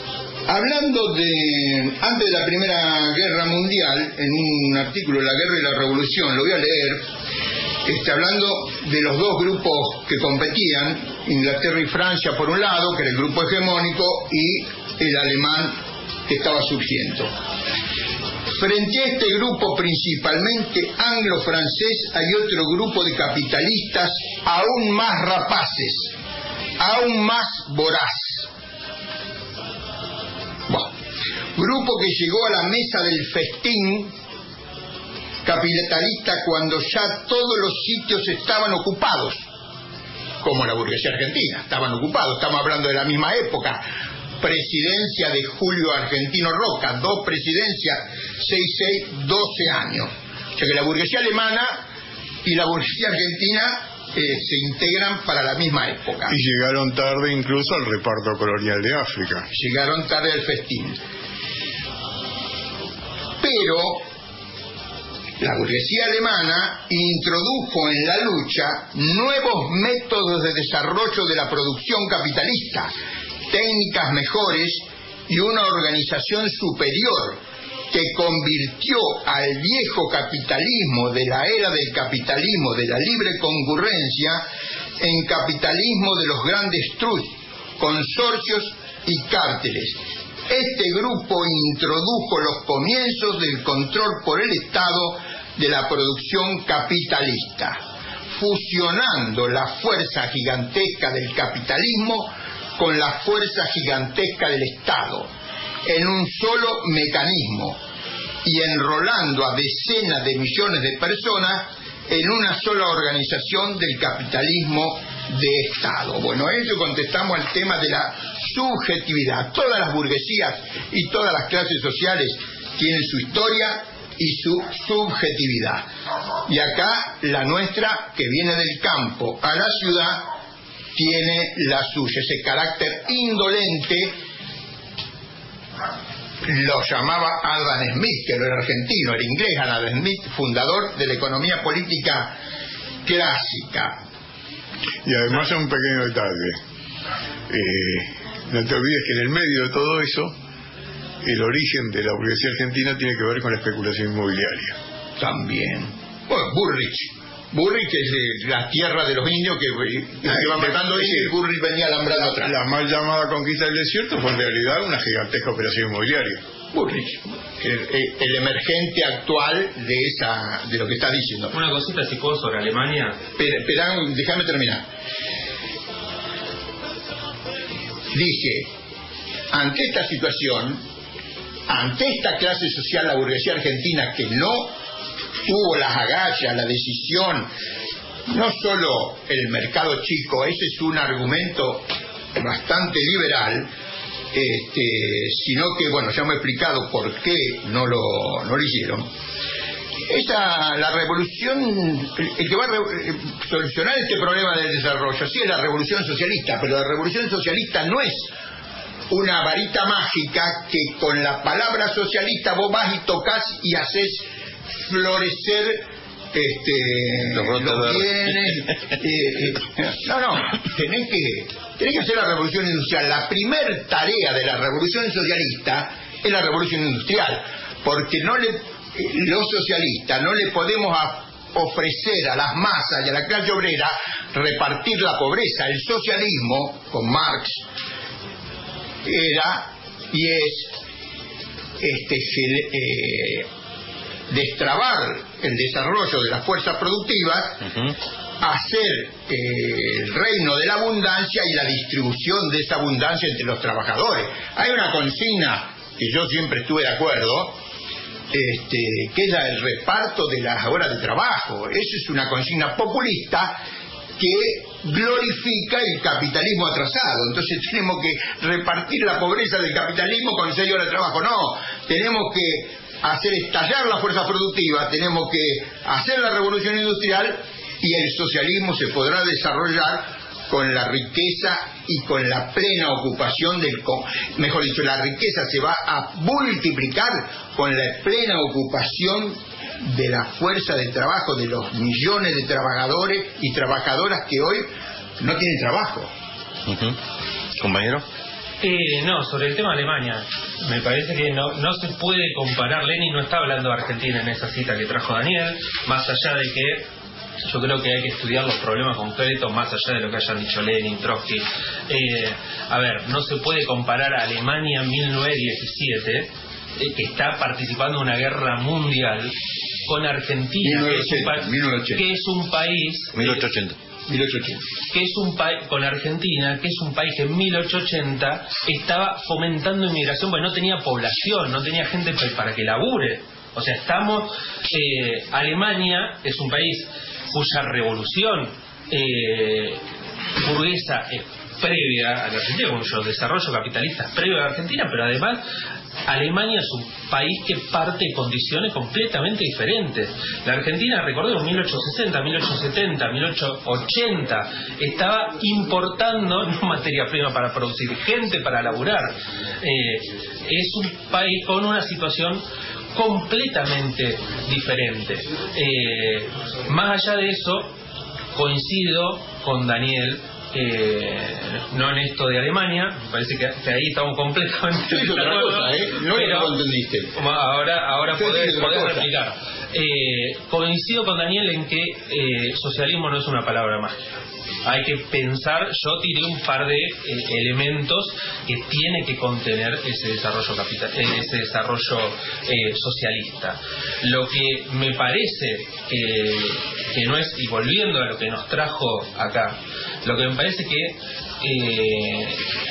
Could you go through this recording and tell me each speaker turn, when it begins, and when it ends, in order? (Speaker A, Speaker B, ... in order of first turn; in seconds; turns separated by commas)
Speaker A: 0.5-7.0, Speaker A: 7.8-15.8, Speaker A: 16.3-17.3, Speaker A: 18.6-26.1, Speaker A: 26.8-28.5, Speaker A: 31.6-34.1, Speaker A: 35.4-39.5, Speaker A: 40.4-43.8, Speaker A: 44.4-51.8, Speaker A: 52.4-56.3, Speaker B: 56.2-59.5, Speaker A: 59.5-61.0, Speaker A: 63.4-64.0, Speaker A: 65.4-72.9, Speaker A: 73.5-77.4, Speaker A: 77.9-84.4, Speaker A: 85.0-97.8, Speaker A: 98.3-105.3, Speaker A: 105.8-107.8, Speaker A: 108.4-125.8, Speaker A: 126.5-130.3, Speaker A: 130.9-134.1, Speaker A: 136.4-142.3, Speaker A: 143.0-144.0, Speaker B: 145.0-146.6, Speaker B: 147.5-150.3, Speaker B: 151.2-154.8, Speaker A: 155.2-162.5, Speaker B: 160.2-161.3, Speaker B: 162.2-166.4, Speaker A: 166.7-171.5, Speaker C: 171.5-173.2, Speaker A: 173.4-174.8, Speaker A: 178.1-178.7, Speaker A: 179.5-180.8, Speaker A: 181.7-184.7, Speaker A: 185.4-187.5, Speaker A: 188.3-193.7, Speaker A: 194.3-199.1, Speaker A: 200.1-208.3, Speaker A: 209.1-214.3, Speaker A: 214.8-237.6, Speaker D: 217.3-218.1, Speaker A: 239.0-240.7, Speaker A: 241.8-243.5, Speaker A: 244.3-247.8, Speaker A: 248.4-257.6, Speaker A: 258.3-263.6, Speaker A: 264.2-294.7, Speaker A: 295.2-296.1, Speaker D: 296.7-296.9, Speaker D: 297.6-298.0, Speaker C: 298.6-306.9, Speaker C: 307.4-319.3, Speaker C: 319.9-323.4, Speaker A: 320.6-322.0, Speaker D: 323.1-323.8, Speaker A: 324.1-324.6, Speaker C: 324.9-339.8, Speaker C: 340.4-345.4, Speaker C: 346.1-362.4, Speaker C: 362.9-367.7, Speaker C: 368.3-376.6, Speaker A: 374.9-377.1, Speaker C: 377.1-402.4, Speaker A: 378.1-379.1